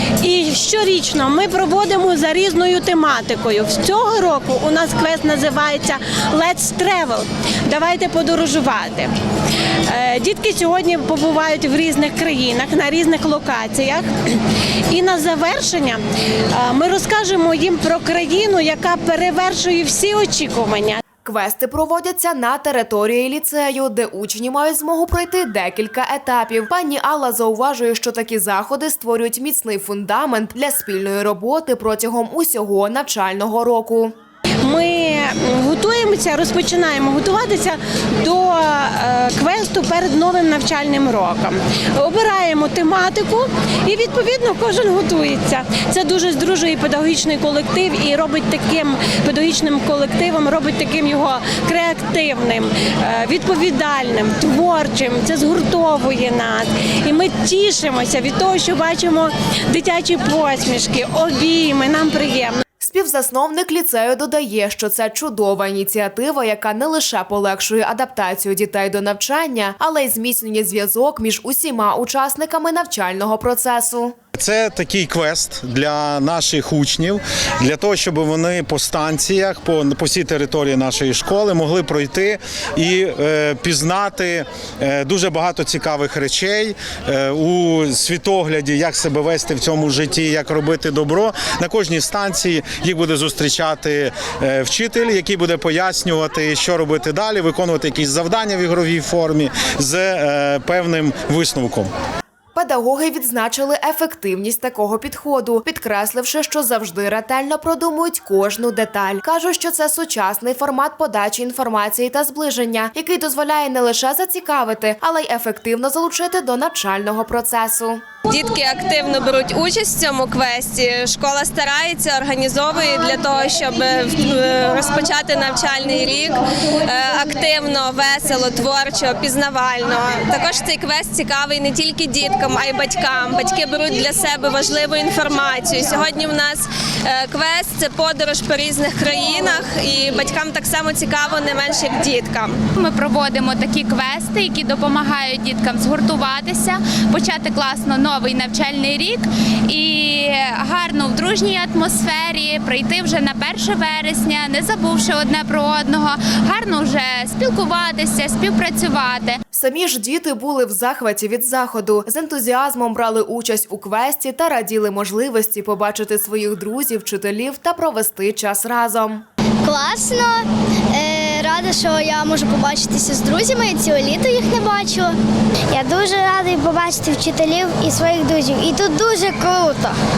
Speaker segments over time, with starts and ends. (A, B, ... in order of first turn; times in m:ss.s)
0:00.2-0:09.1 A
0:09.9-0:14.4 A
0:14.9-0:16.0 A
0:16.5-0:21.0 A
0:21.2-0:34.1 B
0:34.6-1:02.6 A
1:02.8-1:14.1 B
1:14.4-1:41.9 C
1:42.5-1:58.0 B
1:58.2-2:22.6 D
2:22.7-2:39.4 E
2:39.5-2:49.2 B
2:49.6-2:55.2 F
2:55.7-3:00.0 F